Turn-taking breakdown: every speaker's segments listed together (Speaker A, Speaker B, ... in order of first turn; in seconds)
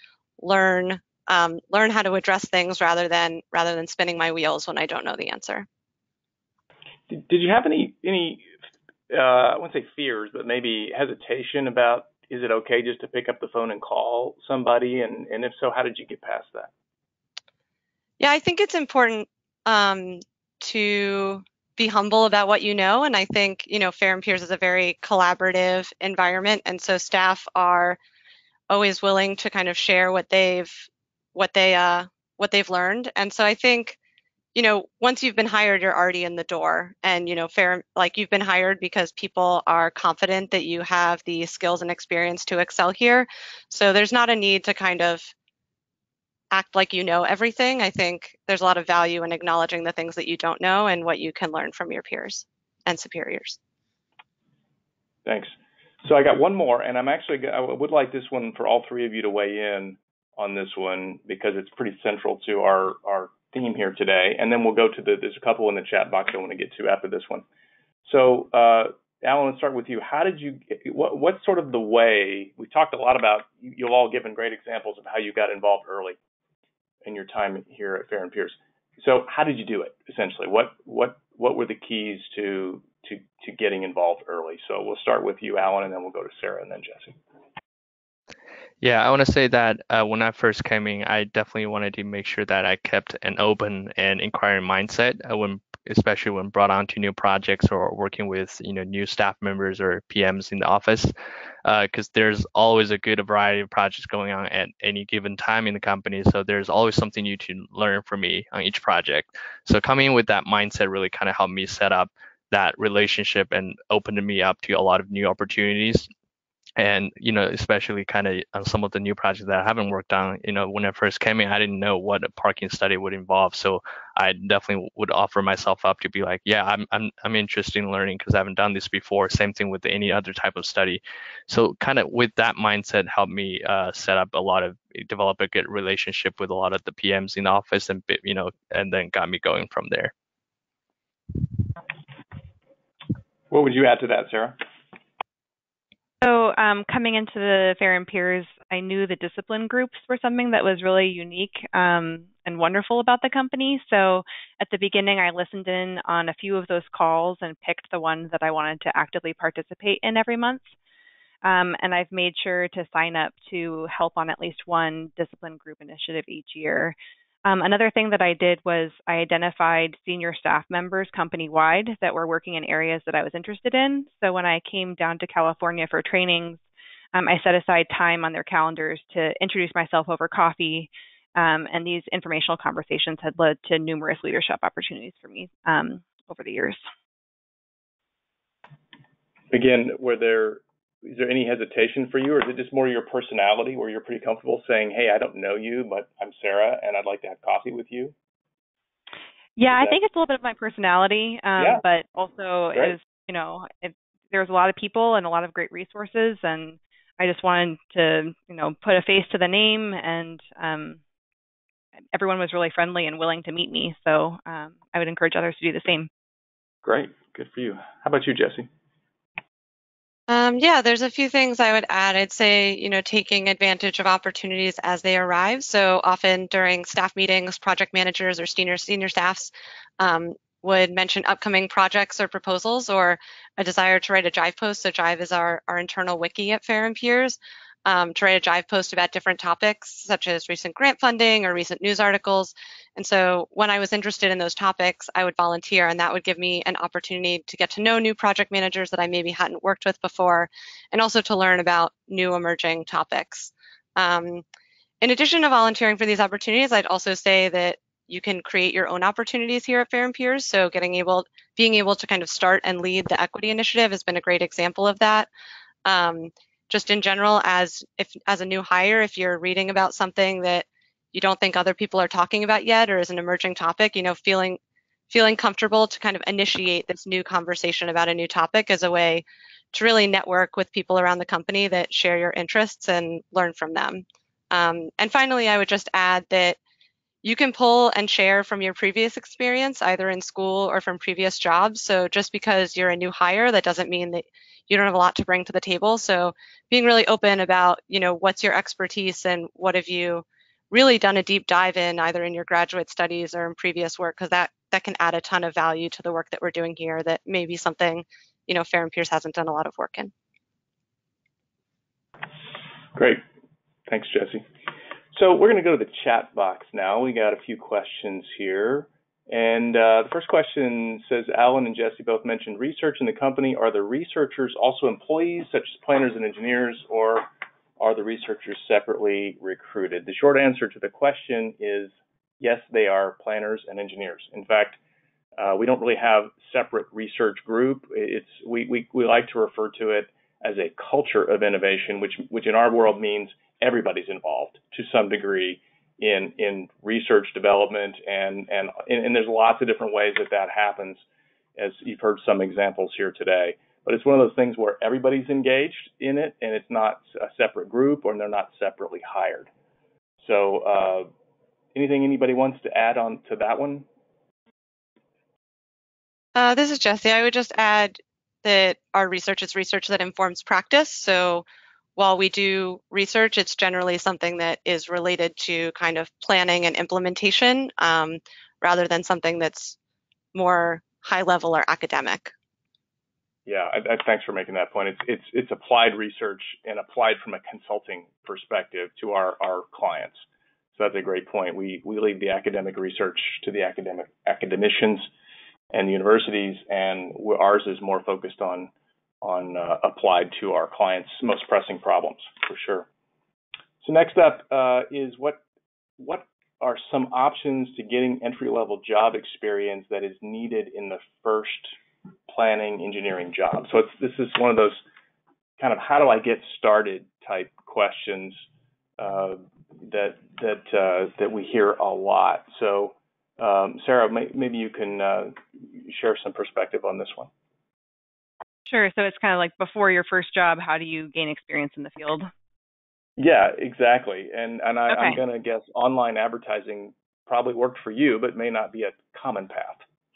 Speaker A: 0.4-5.7, 18.2-28.0, 28.7-34.0, 34.5-45.3, 46.5-53.6, 220.3-254.4, 255.0-265.3, 265.8-274.6, 275.1-286.6, 287.2-310.1, 366.3-371.4, 372.0-379.8, 380.3-382.3
Speaker B: 7.1-8.5, 9.1-16.7, 55.2-67.5, 68.0-76.2, 77.0-87.2, 143.5-144.6, 189.5-198.1, 199.7-200.0, 201.6-201.8, 216.8-218.7, 312.9-313.2, 313.9-314.4, 315.1-334.8, 335.4-351.0, 351.6-359.5, 360.2-361.1, 361.7-363.9, 383.4-390.2, 390.7-395.1, 395.7-402.9, 403.8-405.4, 406.0-411.8, 412.3-414.8, 415.6-418.4, 419.0-427.3, 433.2-439.8
Speaker C: 88.8-101.1, 101.6-116.1, 116.8-140.1
Speaker D: 146.2-160.7, 161.4-176.6, 177.1-186.8, 199.6-211.0, 212.1-216.1, 428.6-432.3, 434.9-435.2